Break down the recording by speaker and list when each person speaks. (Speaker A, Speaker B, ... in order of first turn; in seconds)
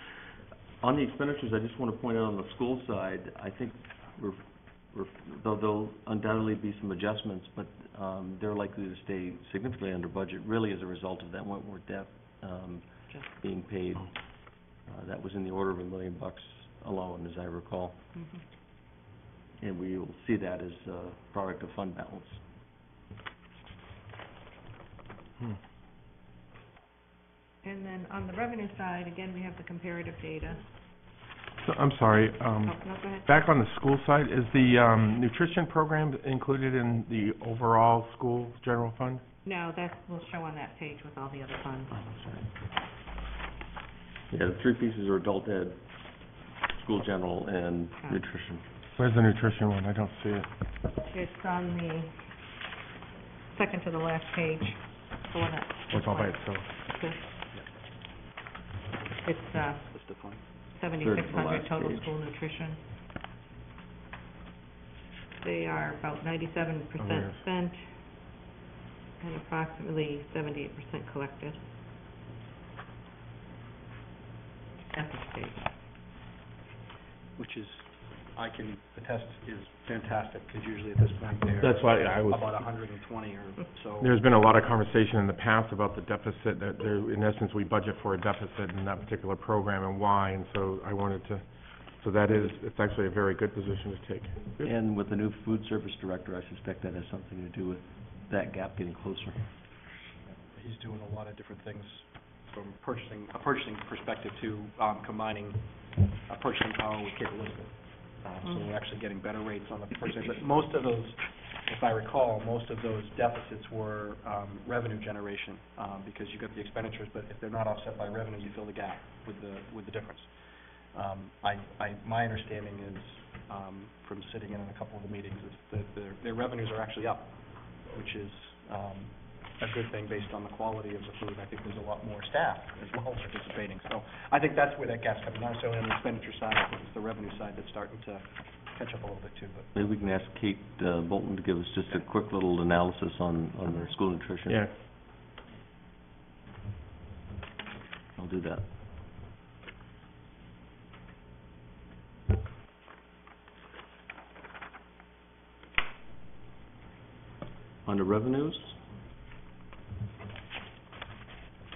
Speaker A: 0.8-12.8, 13.4-14.1, 14.9-18.0, 19.6-22.4, 41.9-42.5, 44.3-45.8, 46.7-48.6, 61.0-62.1, 94.6-99.5, 139.7-144.6, 148.2-148.6, 157.8-158.8
Speaker B: 13.1-13.4, 18.1-18.4, 27.6-30.6, 32.6-33.3, 39.4-42.1, 51.1-52.2, 53.5-57.3, 59.2-59.9, 60.7-62.8, 65.4-67.9, 69.2-71.6, 74.9-75.7, 143.7-143.9
Speaker C: 31.6-39.2, 49.0-50.5, 55.9-56.7, 67.0-67.4, 81.6-82.6, 84.0-91.4, 92.0-94.7, 144.5-144.7
Speaker D: 59.9-60.4, 77.4-84.2, 100.5-105.6, 106.3-120.3, 120.9-127.3, 127.9-139.7